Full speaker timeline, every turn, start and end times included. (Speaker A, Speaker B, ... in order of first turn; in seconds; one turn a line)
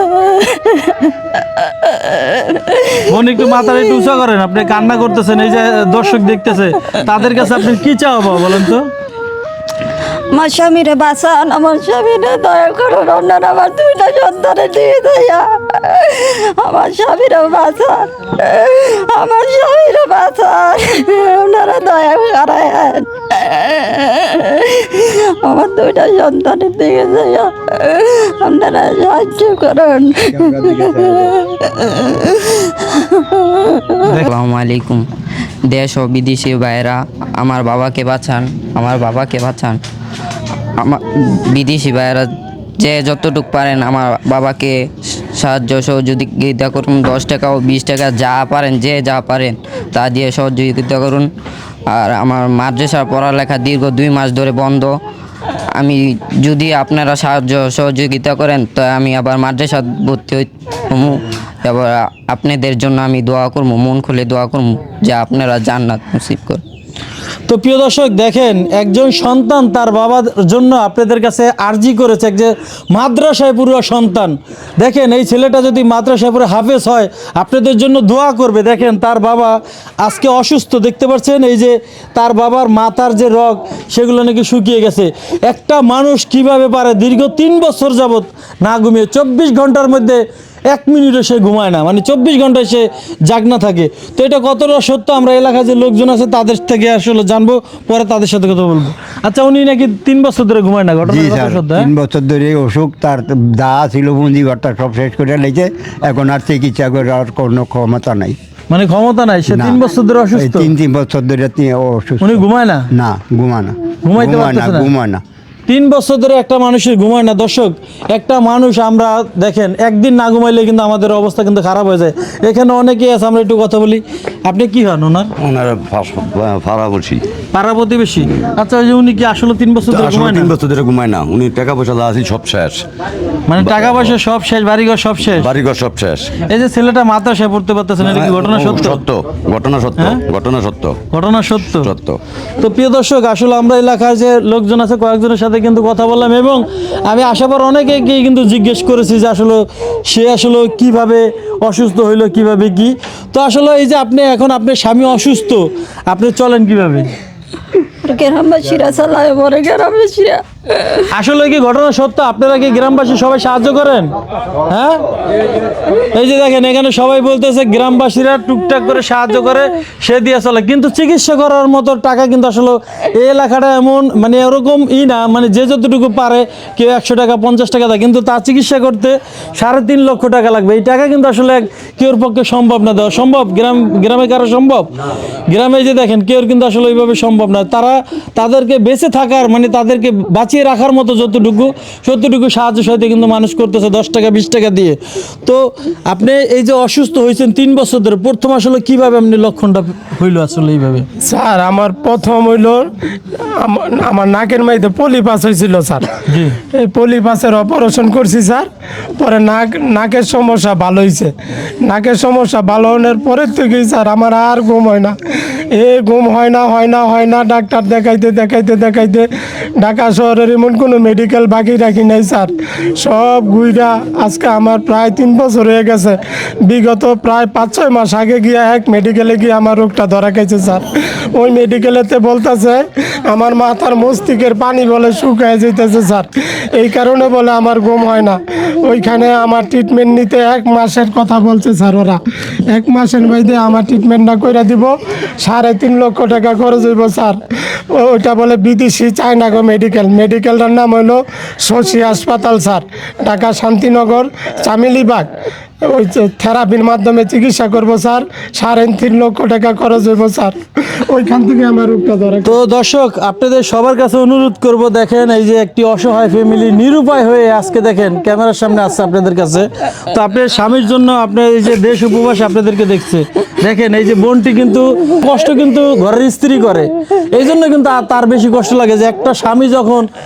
Speaker A: 0.2-1.1
Speaker A: 1.8-3.0
Speaker B: 3.0-8.9
Speaker A: 10.3-34.0
Speaker B: 34.0-34.3
Speaker C: 34.1-35.0
Speaker C: 35.7-39.8
Speaker C: 40.8-44.8
Speaker C: 45.3-51.3
Speaker C: 51.9-55.0
Speaker C: 55.7-66.6
Speaker B: 67.5-101.9
Speaker D: 101.0-108.3
Speaker B: 108.7-110.7
Speaker D: 109.5-109.8
Speaker D: 110.3-115.2
Speaker B: 112.2-112.9
Speaker B: 114.0-114.9
Speaker B: 115.7-125.3
Speaker E: 125.4-127.2
Speaker B: 127.5-130.5
Speaker E: 129.9-132.8
Speaker B: 133.5-135.5
Speaker E: 133.6-134.1
Speaker E: 135.4-136.3
Speaker B: 136.4-139.0
Speaker E: 138.0-141.0
Speaker B: 139.9-140.2
Speaker B: 141.1-141.9
Speaker E: 141.8-142.2
Speaker B: 142.6-157.1
Speaker A: 158.0-161.0
Speaker B: 161.1-164.1
Speaker B: 164.7-165.0
Speaker B: 166.1-184.9
Speaker B: 185.5-201.1
Speaker F: 201.2-202.9
Speaker F: 203.6-206.1
Speaker B: 206.3-206.6
Speaker F: 206.7-208.7
Speaker F: 209.2-211.3
Speaker F: 211.8-215.2
Speaker F: 215.7-219.3
Speaker F: 219.8-242.2
Speaker F: 242.7-247.4
Speaker F: 247.9-255.3
Speaker F: 255.8-260.6
Speaker F: 261.1-262.5
Speaker B: 262.4-280.1